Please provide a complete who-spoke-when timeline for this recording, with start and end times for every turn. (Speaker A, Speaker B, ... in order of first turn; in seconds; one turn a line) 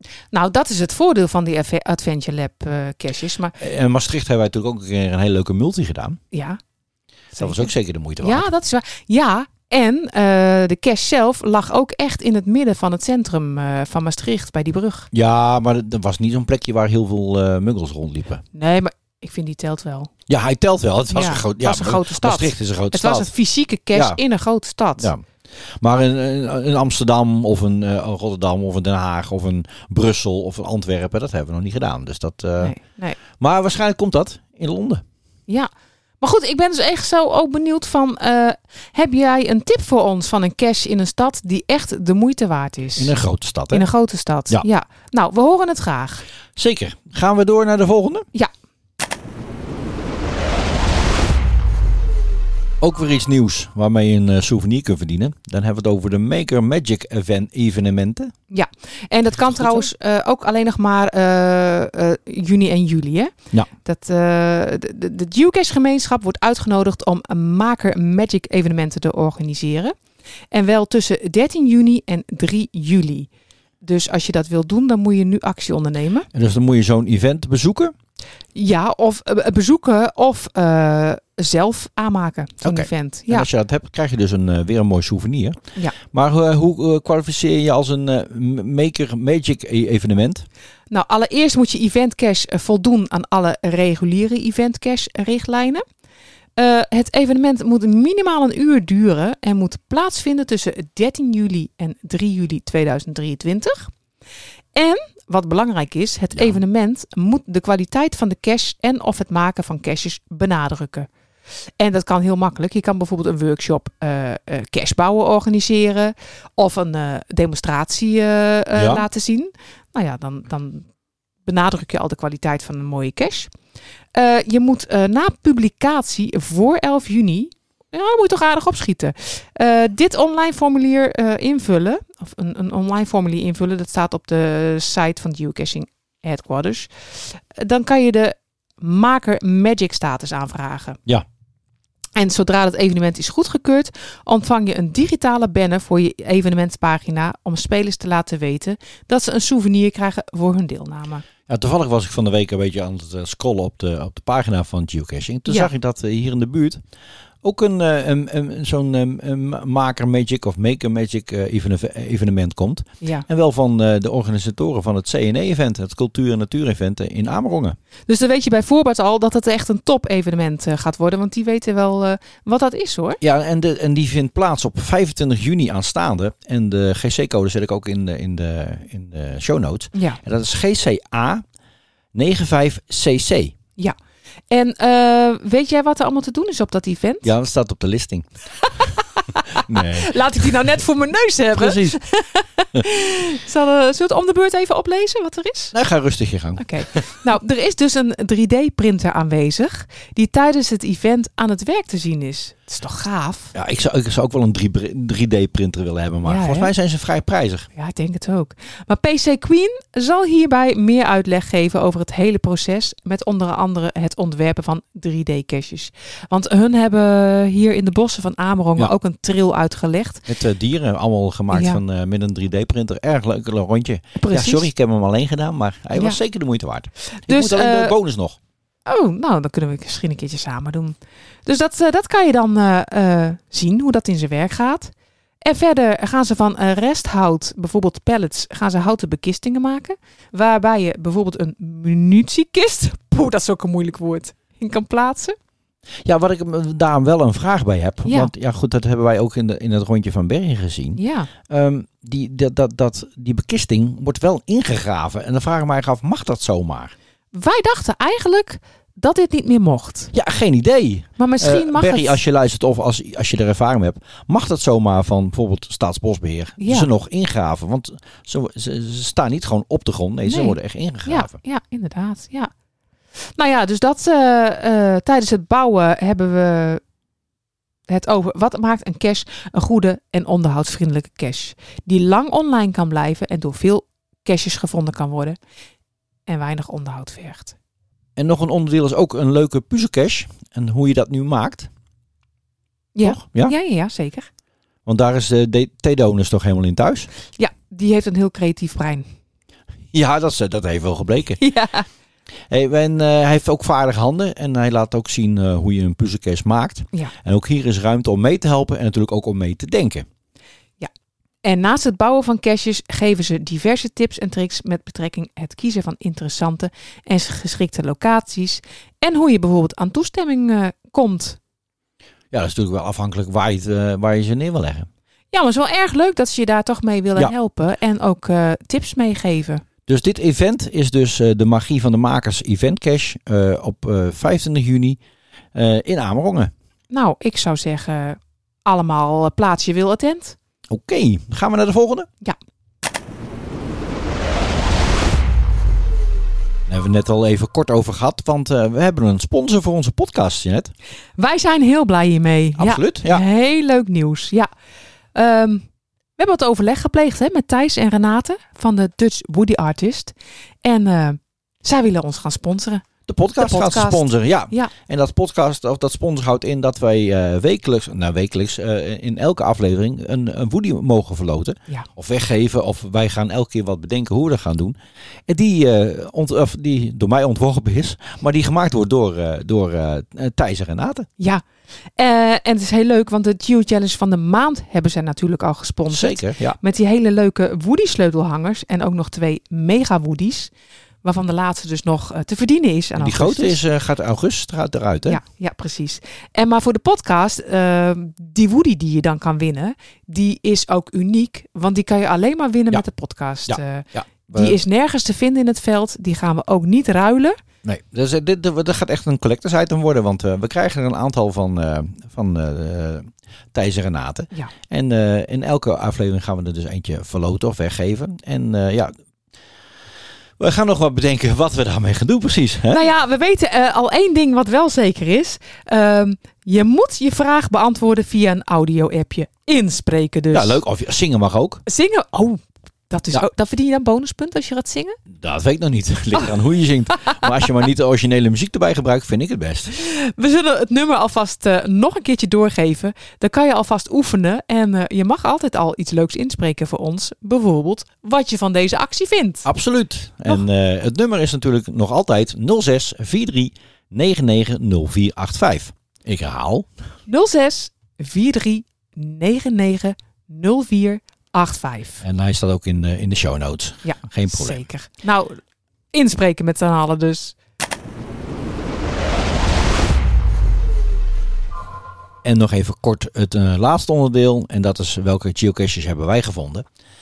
Speaker A: 0.3-3.5
Speaker B: 3.5-6.2
Speaker A: 6.3-6.6
Speaker A: 7.3-15.1
Speaker B: 7.4-8.5
Speaker B: 15.1-18.4
Speaker A: 18.5-20.1
Speaker B: 20.3-23.3
Speaker A: 21.1-25.1
Speaker B: 23.9-24.2
Speaker B: 25.8-32.7
Speaker A: 32.6-33.2
Speaker B: 33.3-35.0
Speaker A: 36.2-43.1
Speaker B: 43.0-43.9
Speaker A: 43.7-46.2
Speaker B: 46.5-48.3
Speaker B: 52.8-58.3
Speaker A: 58.5-69.9
Speaker B: 59.4-59.9
Speaker A: 70.5-73.3
Speaker A: 73.8-76.3
Speaker B: 76.3-77.9
Speaker A: 78.5-83.5
Speaker B: 82.6-90.5
Speaker A: 90.9-95.8
Speaker A: 96.6-103.9
Speaker A: 104.7-111.1
Speaker A: 111.8-120.9
Speaker B: 118.8-119.0
Speaker A: 121.4-123.5
Speaker A: 124.1-141.0
Speaker A: 142.2-151.2
Speaker B: 151.5-156.8
Speaker B: 157.4-167.8
Speaker A: 168.1-173.2
Speaker B: 173.2-181.4
Speaker A: 179.9-180.2
Speaker B: 182.1-183.5
Speaker A: 184.5-187.3
Speaker B: 187.2-188.3
Speaker A: 188.7-195.7
Speaker B: 189.5-190.2
Speaker B: 191.5-192.0
Speaker B: 195.7-197.1
Speaker A: 196.6-203.5
Speaker B: 203.5-207.7
Speaker A: 206.2-206.7
Speaker A: 207.7-220.2
Speaker B: 220.3-228.4
Speaker A: 221.5-221.8
Speaker A: 224.2-224.7
Speaker A: 227.1-227.9
Speaker A: 228.8-245.3
Speaker B: 246.0-256.9
Speaker A: 248.0-248.3
Speaker A: 250.9-251.3
Speaker A: 257.3-260.1
Speaker B: 260.1-271.4
Speaker A: 261.2-262.2
Speaker A: 266.6-266.9
Speaker A: 270.2-272.5
Speaker A: 273.4-276.8
Speaker A: 277.9-285.4
Speaker A: 286.3-287.5
Speaker B: 288.2-291.7
Speaker A: 292.9-294.3
Speaker B: 293.0-293.5
Speaker B: 294.9-297.1
Speaker A: 297.4-299.1
Speaker B: 299.9-301.4
Speaker A: 301.4-301.9
Speaker B: 302.5-310.1
Speaker A: 311.4-321.4
Speaker B: 322.3-324.9
Speaker A: 325.3-329.6
Speaker B: 329.9-335.0
Speaker B: 335.5-336.5
Speaker A: 336.9-340.4
Speaker B: 340.7-342.1
Speaker B: 346.7-350.7
Speaker A: 351.2-354.5
Speaker B: 352.6-353.2
Speaker A: 355.1-355.6
Speaker A: 356.2-362.9
Speaker B: 363.1-381.1
Speaker A: 363.4-364.7
Speaker A: 381.2-381.4
Speaker A: 382.0-390.5
Speaker B: 385.9-386.6
Speaker A: 391.0-393.6
Speaker B: 393.0-395.2
Speaker A: 395.1-407.4
Speaker B: 403.5-404.6
Speaker B: 407.6-418.9
Speaker B: 420.4-422.9
Speaker A: 422.7-430.6
Speaker B: 430.3-431.6
Speaker A: 431.6-435.0
Speaker B: 435.1-439.8
Speaker A: 439.7-449.5
Speaker B: 449.4-456.7
Speaker A: 457.1-462.0
Speaker B: 462.0-464.6
Speaker A: 463.8-465.4
Speaker A: 465.9-467.3
Speaker B: 472.2-476.6